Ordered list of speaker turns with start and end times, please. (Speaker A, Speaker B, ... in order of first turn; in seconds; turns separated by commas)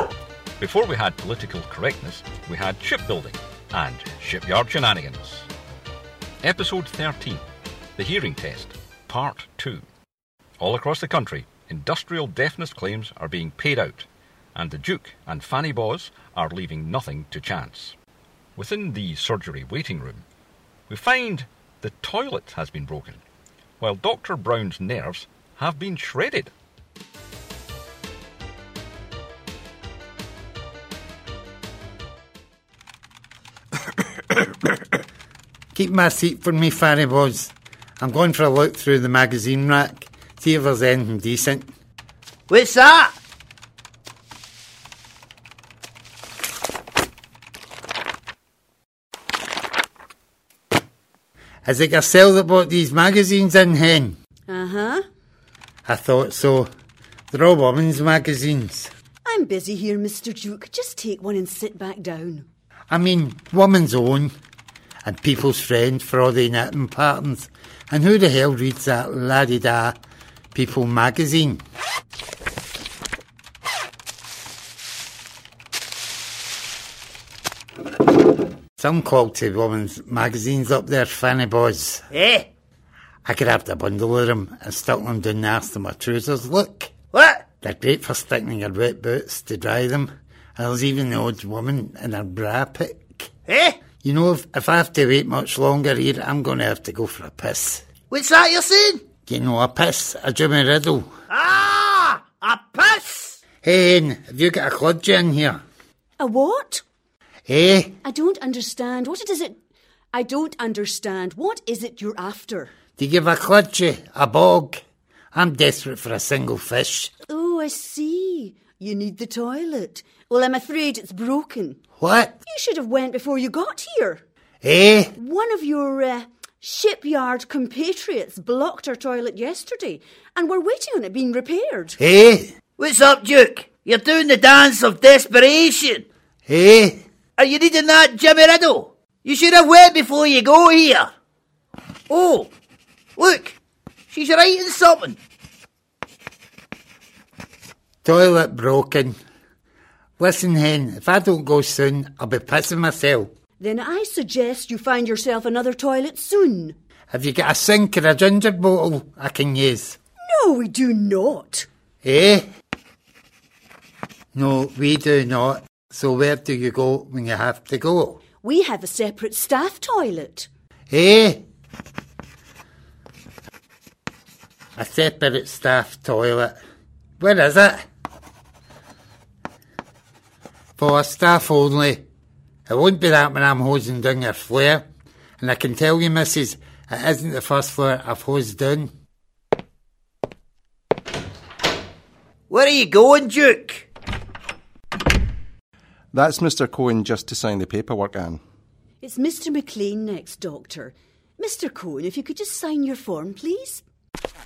Speaker A: 0.6-5.5, Speaker A: 6.4-7.4, Speaker A: 8.0-9.8, Speaker A: 10.6-17.9, Speaker A: 18.6-20.2, Speaker A: 20.9-23.2, Speaker A: 23.8-26.5, Speaker B: 35.7-41.7, Speaker C: 42.5-43.1, Speaker B: 51.6-54.1, Speaker D: 54.5-55.0, Speaker B: 55.8-56.7, Speaker B: 57.3-58.9, Speaker D: 59.2-62.5, Speaker B: 62.9-64.3, Speaker B: 65.0-70.0, Speaker B: 70.5-71.6, Speaker B: 78.8-82.0, Speaker C: 82.1-82.5, Speaker B: 83.2-87.0, Speaker C: 87.1-87.5, Speaker B: 87.6-93.3, Speaker C: 93.5-93.8, Speaker B: 94.0-97.8, Speaker C: 98.1-99.0, Speaker B: 99.2-101.1, Speaker C: 101.3-103.4, Speaker B: 103.6-105.6, Speaker D: 106.2-106.8, Speaker B: 107.5-107.9, Speaker D: 108.0-109.6, Speaker D: 110.1-112.7, Speaker B: 113.0-114.8, Speaker B: 115.3-117.1, Speaker D: 117.3-121.8, Speaker B: 122.0-122.4, Speaker D: 122.5-124.2, Speaker B: 124.6-125.1, Speaker D: 125.1-132.0, Speaker B: 132.0-132.5, Speaker C: 132.8-136.1, Speaker B: 136.5-137.0, Speaker C: 137.4-141.1, Speaker C: 142.1-142.5, Speaker C: 143.2-143.6, Speaker C: 144.1-145.2, Speaker B: 148.0-149.2, Speaker B: 150.2-153.3, Speaker D: 153.6-156.7, Speaker B: 157.1-160.0, Speaker D: 160.3-161.7, Speaker B: 162.0-162.4, Speaker B: 164.3-168.2, Speaker D: 168.4-170.5, Speaker B: 170.9-171.4, Speaker B: 174.8-176.5, Speaker B: 177.2-177.8, Speaker B: 180.8-182.0, Speaker B: 182.7-184.8, Speaker B: 185.4-188.9, Speaker C: 192.5-193.9, Speaker E: 196.1-198.4, Speaker D: 199.0-203.8